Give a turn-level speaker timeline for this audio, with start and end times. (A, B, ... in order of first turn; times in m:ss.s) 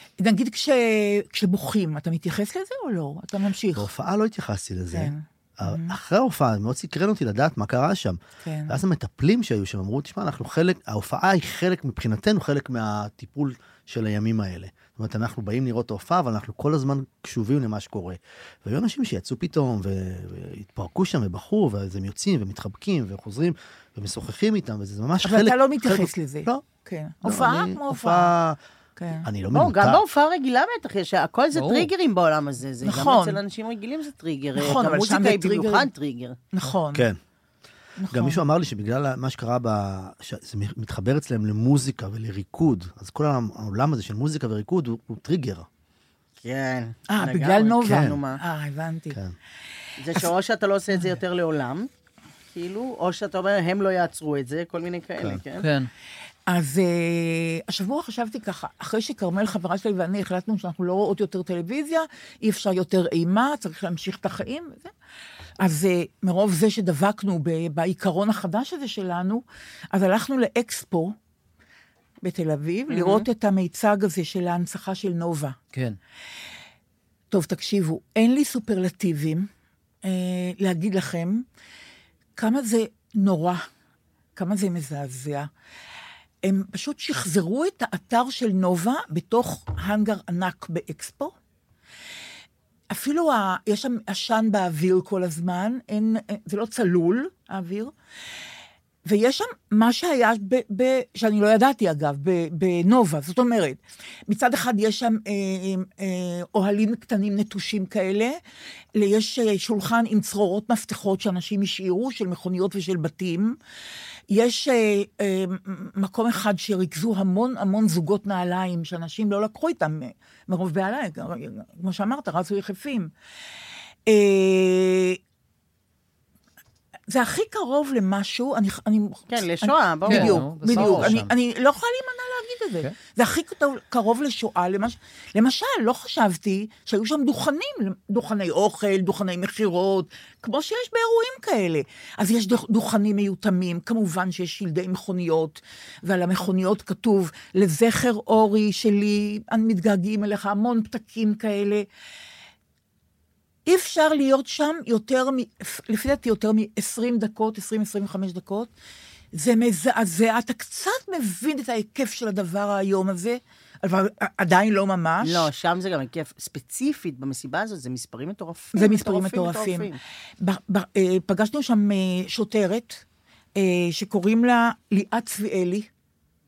0:00.2-0:03.9 A
0:03.8-0:08.2 B
0:04.9-0:06.0 A
0:08.4-0:08.8 A
0:08.7-0:26.6 B
0:25.2-0:28.3 A
0:27.2-0:28.6 B
0:29.0-0:29.3 A
0:29.2-0:30.0 B
0:29.5-0:36.4 C
0:31.5-0:31.9 D
0:32.8-0:33.4 A
0:34.6-0:35.9 A
0:36.5-0:37.1 A
0:38.0-0:38.4 A
0:38.1-0:45.7 B
0:46.4-0:48.4 C
0:47.1-0:49.2 A
0:47.8-0:48.2 B
0:50.0-0:51.9 C
0:52.5-0:55.7 C
0:55.6-0:55.9 D
0:56.5-1:04.9 A
1:05.6-1:11.2 A
1:12.2-1:15.6 A
1:12.9-1:13.3 C
1:15.7-1:16.0 D
1:17.3-1:19.5 A
1:20.0-1:21.5 A
1:22.4-1:23.7 A
1:24.4-1:25.5 A
1:26.4-1:31.3 A
1:32.9-1:37.9 A
1:39.0-1:48.4 A
1:49.0-1:53.6 A
1:54.3-2:03.1 A
2:04.1-2:05.2 A
2:07.1-2:31.9 A
2:09.3-2:11.1 C
2:10.1-2:11.3 D
2:33.7-2:38.7 A
2:39.3-2:45.5 A
2:45.2-2:50.0 C
2:48.7-2:53.0 A
2:53.6-2:55.9 A